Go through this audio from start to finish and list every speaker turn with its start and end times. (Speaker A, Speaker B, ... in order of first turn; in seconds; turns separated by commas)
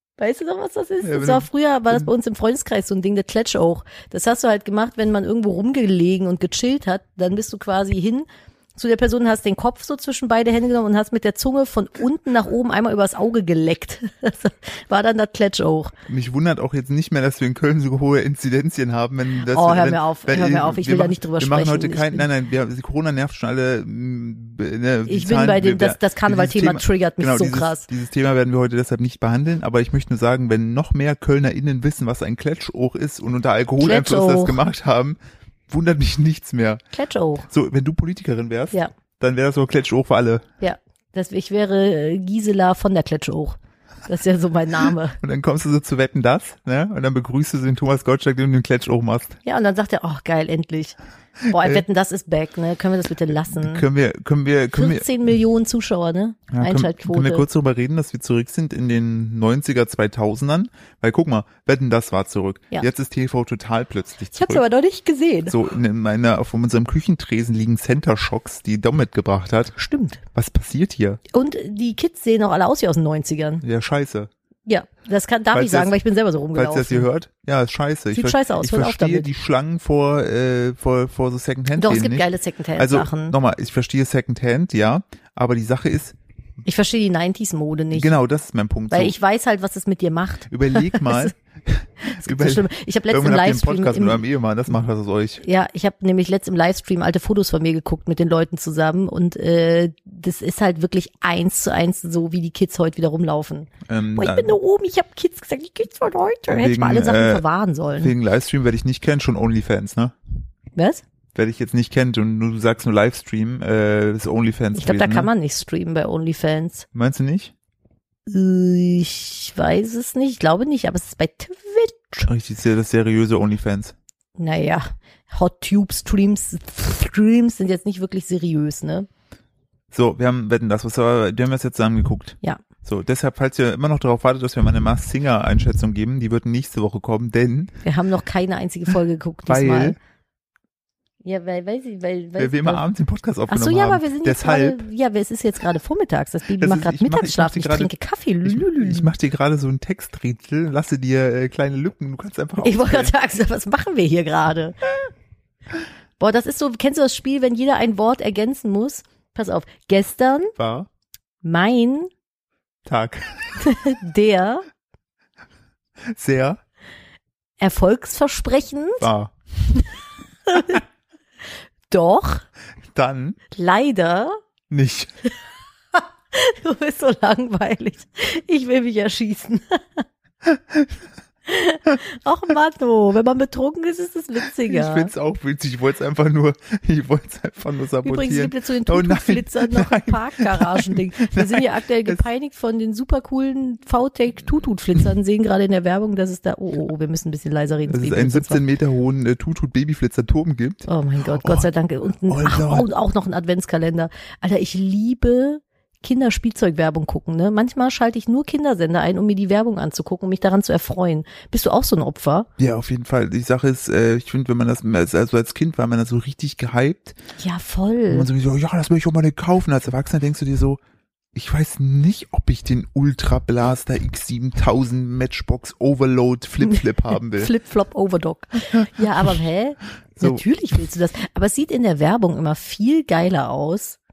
Speaker A: 0.2-15.9, Speaker B: 1.0-2.1, Speaker B: 16.1-35.2, Speaker A: 19.4-22.3, Speaker A: 25.1-27.9, Speaker A: 33.8-34.6, Speaker B: 35.7-36.8, Speaker A: 36.9-37.5, Speaker B: 37.5-40.5, Speaker A: 40.6-45.2, Speaker B: 45.2-49.4, Speaker A: 49.5-51.0, Speaker B: 51.4-51.8, Speaker A: 51.5-53.9, Speaker B: 53.6-55.1, Speaker A: 54.7-57.5, Speaker B: 56.5-64.6, Speaker A: 64.3-65.6, Speaker B: 65.5-69.8, Speaker A: 69.8-70.2, Speaker B: 70.3-71.2, Speaker A: 71.3-73.6, Speaker B: 73.6-74.3, Speaker A: 74.7-77.1, Speaker B: 75.5-75.9, Speaker B: 76.5-86.2, Speaker A: 78.1-79.3, Speaker A: 81.8-83.3, Speaker A: 86.7-88.1, Speaker B: 87.9-89.1, Speaker A: 88.9-91.3, Speaker B: 90.5-95.4, Speaker A: 92.2-94.2, Speaker A: 95.4-108.1, Speaker B: 103.9-104.5, Speaker B: 106.5-107.4, Speaker B: 108.0-110.2, Speaker A: 110.8-111.0, Speaker B: 111.3-115.3, Speaker A: 114.8-116.9, Speaker B: 116.9-117.5, Speaker A: 118.3-122.3, Speaker B: 122.3-124.0, Speaker A: 124.4-129.1, Speaker B: 129.9-137.8, Speaker A: 137.8-140.0, Speaker B: 139.5-140.0, Speaker A: 141.2-142.8, Speaker B: 142.4-144.8, Speaker A: 143.5-149.1, Speaker B: 146.6-147.9, Speaker B: 148.4-153.1, Speaker A: 152.6-155.1, Speaker A: 156.2-160.5, Speaker B: 160.6-160.9, Speaker A: 161.4-162.1, Speaker B: 162.9-163.7, Speaker A: 163.6-164.7, Speaker B: 166.1-166.6, Speaker A: 167.6-169.1, Speaker B: 169.0-169.3, Speaker A: 170.5-170.8, Speaker A: 171.9-172.4, Speaker B: 172.9-173.4, Speaker A: 173.5-174.4, Speaker B: 174.7-175.1, Speaker A: 175.9-180.1, Speaker B: 180.4-180.9, Speaker A: 181.5-185.1, Speaker B: 184.6-192.2, Speaker A: 188.0-198.6, Speaker B: 197.9-201.7, Speaker A: 200.9-212.5, Speaker B: 202.2-202.9, Speaker B: 212.6-217.2, Speaker A: 217.4-218.3, Speaker B: 218.1-220.8, Speaker B: 221.3-227.5, Speaker A: 227.3-234.0